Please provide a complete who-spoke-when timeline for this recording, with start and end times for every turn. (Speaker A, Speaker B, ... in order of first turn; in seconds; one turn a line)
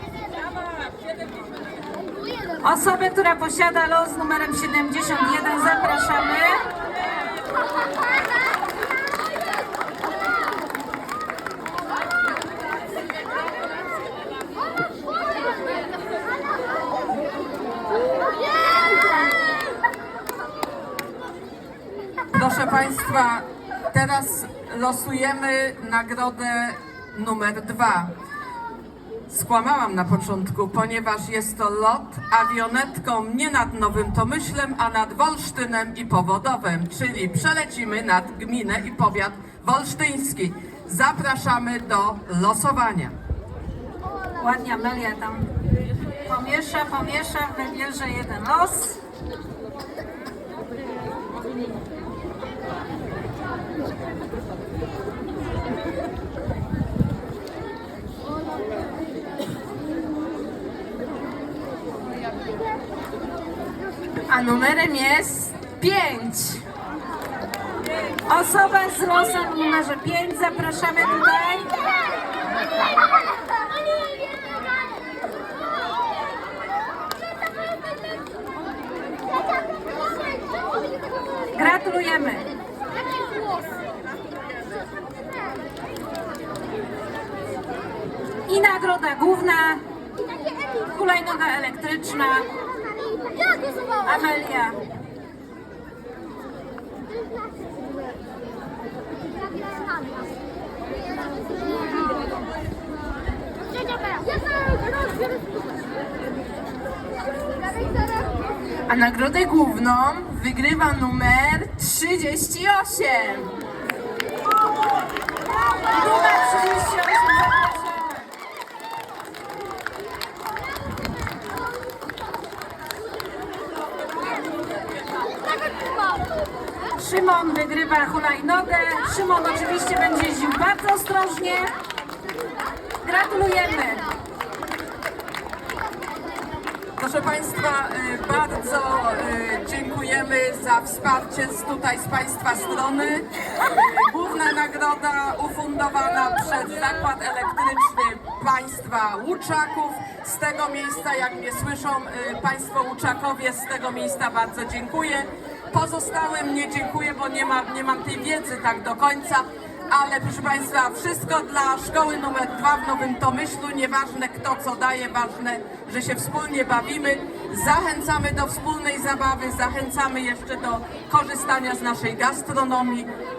Speaker A: 2.6-6.6
Speaker B: 22.3-28.1
Speaker B: 29.3-43.1
Speaker A: 44.4-45.5
Speaker A: 46.2-49.0
Speaker C: 64.3-66.6
Speaker A: 68.2-71.7
Speaker A: 81.5-82.5
Speaker A: 88.5-89.8
Speaker A: 90.8-92.5
Speaker A: 94.0-94.8
Speaker C: 108.9-113.6
Speaker A: 115.8-118.2
Speaker A: 127.0-131.7
Speaker A: 133.0-134.0
Speaker B: 137.0-173.1